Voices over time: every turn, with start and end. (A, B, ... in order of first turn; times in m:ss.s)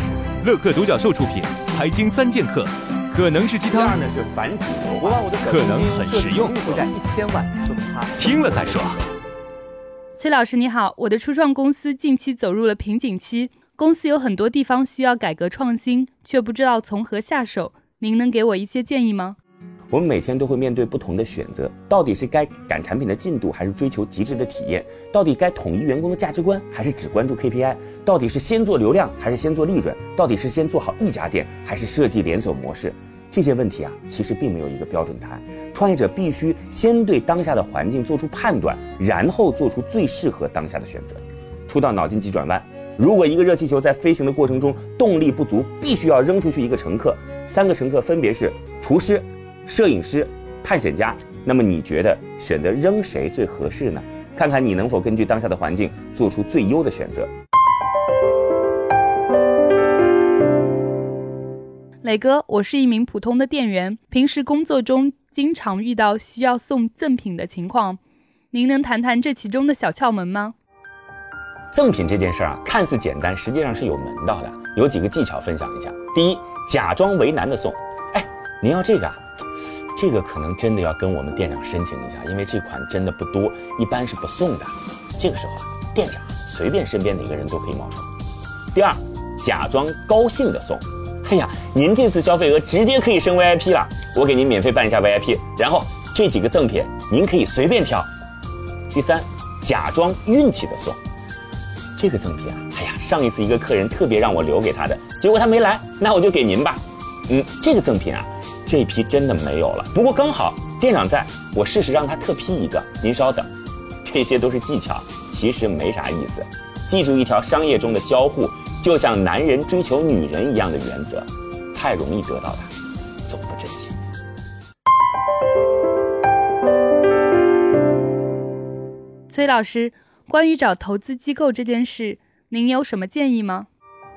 0:00.4-0:04.0 A
0:03.7-0:05.2 B
0:05.1-0:08.8 C
0:05.3-0:06.8 A
0:08.2-0:09.0 A
0:10.1-0:19.4 D
0:19.9-0:57.3 B
1:02.0-1:08.0 D
1:08.5-1:10.5 D
1:11.7-1:19.2 B
1:19.9-1:28.1 B
1:28.7-1:38.1 B
1:38.9-1:41.0 B
1:42.0-1:53.5 B
1:54.0-2:02.7 B
2:03.2-2:04.0 B
2:09.3-2:13.7 D